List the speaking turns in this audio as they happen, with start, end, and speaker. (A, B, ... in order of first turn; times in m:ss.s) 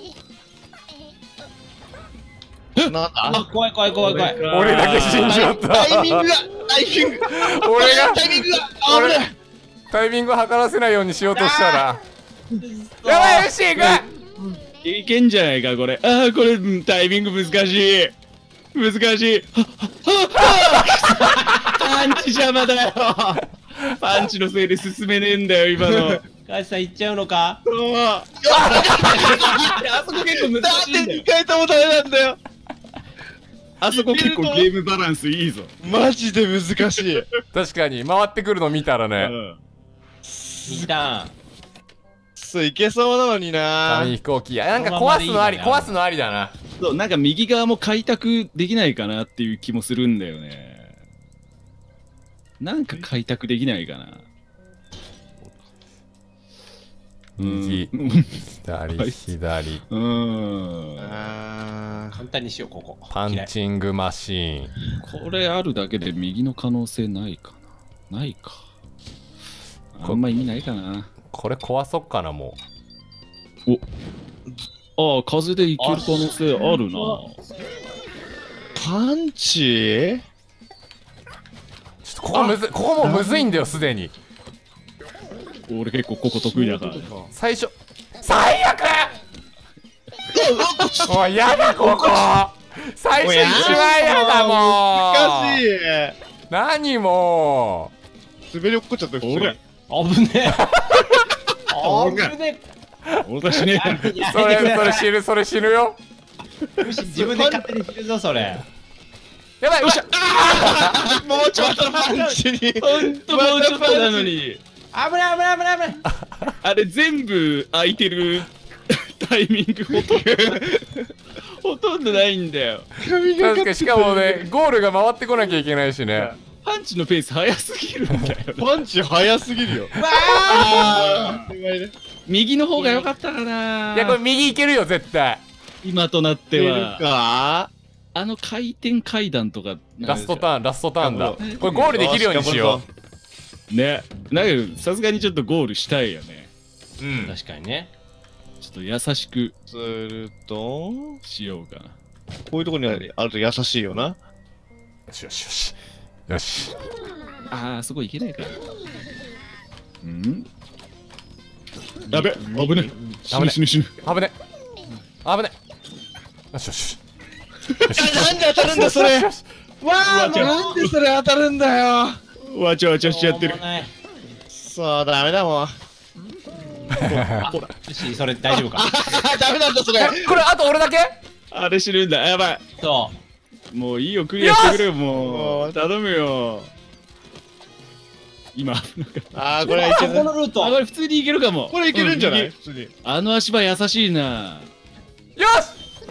0:02.8-0:03.4 A
0:03.2-0:04.4 B
0:04.0-0:05.5 C
0:04.4-0:06.3 D
0:05.0-0:09.3 A
0:07.2-0:09.3 D
0:09.9-0:12.0 D
0:11.3-0:11.9 B
0:12.6-0:13.5 B
0:13.0-0:14.1 D
0:14.8-0:18.2 C
0:18.7-0:26.2 C
0:25.9-0:26.2 A
0:26.4-0:27.6 B
0:27.7-0:32.4 A
0:28.5-0:29.8 D
0:29.0-0:31.3 C
0:33.8-0:35.7 C
0:33.9-0:34.7 A
0:35.8-0:37.3 A
0:37.5-0:39.4 D
0:39.2-0:39.6 C
0:40.2-0:40.9 A
0:40.7-0:41.3 B
0:42.4-0:44.2 A
0:43.9-0:46.5 D
0:44.7-0:46.0 B
0:46.8-0:51.0 C
0:52.6-0:54.3 C
0:57.4-0:57.9 D
0:57.4-0:58.4 C
0:58.6-0:59.8 D
0:59.0-0:59.2 C
0:59.9-1:01.3 C
1:01.0-1:02.2 A
1:02.2-1:03.5 B
1:03.1-1:04.7 D
1:05.0-1:08.6 C
1:10.0-1:11.1 C
1:11.3-1:12.6 D
1:15.0-1:17.4 C
1:15.8-1:17.2 A
1:18.8-1:20.2 A
1:22.0-1:24.1 D
1:22.3-1:23.5 A
1:25.7-1:27.1 C
1:26.5-1:27.3 A
1:27.3-1:29.2 D
1:30.3-1:32.0 A
1:31.0-1:35.6 D
1:33.2-1:36.2 A
1:33.6-1:34.2 B
1:36.5-1:37.9 D
1:38.5-1:39.6 A
1:39.2-1:39.6 C
1:39.9-1:40.6 B
1:40.5-1:41.3 D
1:41.7-1:42.7 B
1:41.8-1:42.3 D
1:43.2-1:44.1 C
1:43.7-1:45.1 B
1:44.1-1:46.0 D
1:46.8-1:48.6 B
1:47.0-1:47.7 A
1:49.6-1:51.0 D
1:49.8-1:54.6 C
1:50.5-1:54.4 A
1:54.9-1:56.0 B
1:56.6-2:00.8 C
1:59.9-2:01.1 A
2:01.6-2:02.9 C
2:03.0-2:04.5 A
2:03.4-2:06.3 D
2:06.2-2:08.7 C
2:08.6-2:11.9 A
2:10.0-2:11.0 B
2:10.6-2:11.5 C
2:12.3-2:14.2 C
2:12.8-2:13.1 B
2:13.9-2:15.4 D
2:15.8-2:17.0 C
2:16.5-2:17.7 A
2:18.2-2:20.5 C
2:20.0-2:22.8 D
2:21.0-2:22.9 A
2:21.4-2:22.0 C
2:23.7-2:26.5 C
2:27.0-2:27.4 D
2:27.2-2:27.9 B
2:28.6-2:29.5 C
2:29.7-2:31.2 A
2:31.2-2:32.0 C
2:32.5-2:34.2 A
2:35.1-2:35.8 D
2:36.3-2:36.7 D
2:37.5-2:38.6 C
2:40.0-2:40.5 C
2:42.1-2:44.0 C
2:43.3-2:44.3 D
2:45.2-2:45.5 D
2:46.5-2:47.0 D
2:47.7-2:48.9 C
2:47.9-2:49.4 D
2:47.9-2:49.3 A
2:49.8-2:50.9 B
2:50.0-2:52.2 A
2:50.1-2:50.9 C
2:52.5-2:53.6 C
2:53.0-2:53.9 B
2:54.5-2:55.7 A
2:56.9-2:57.7 C
2:57.1-2:57.5 D
2:57.4-2:59.0 B
2:58.5-3:00.4 A
3:00.0-3:01.2 D
3:01.5-3:02.6 C
3:02.8-3:03.2 B
3:03.7-3:06.7 C
3:04.4-3:04.8 D
3:05.1-3:05.9 A
3:08.6-3:12.5 C
3:09.3-3:10.3 A
3:09.6-3:10.8 B
3:11.7-3:12.9 A
3:13.0-3:14.7 C
3:15.4-3:15.8 D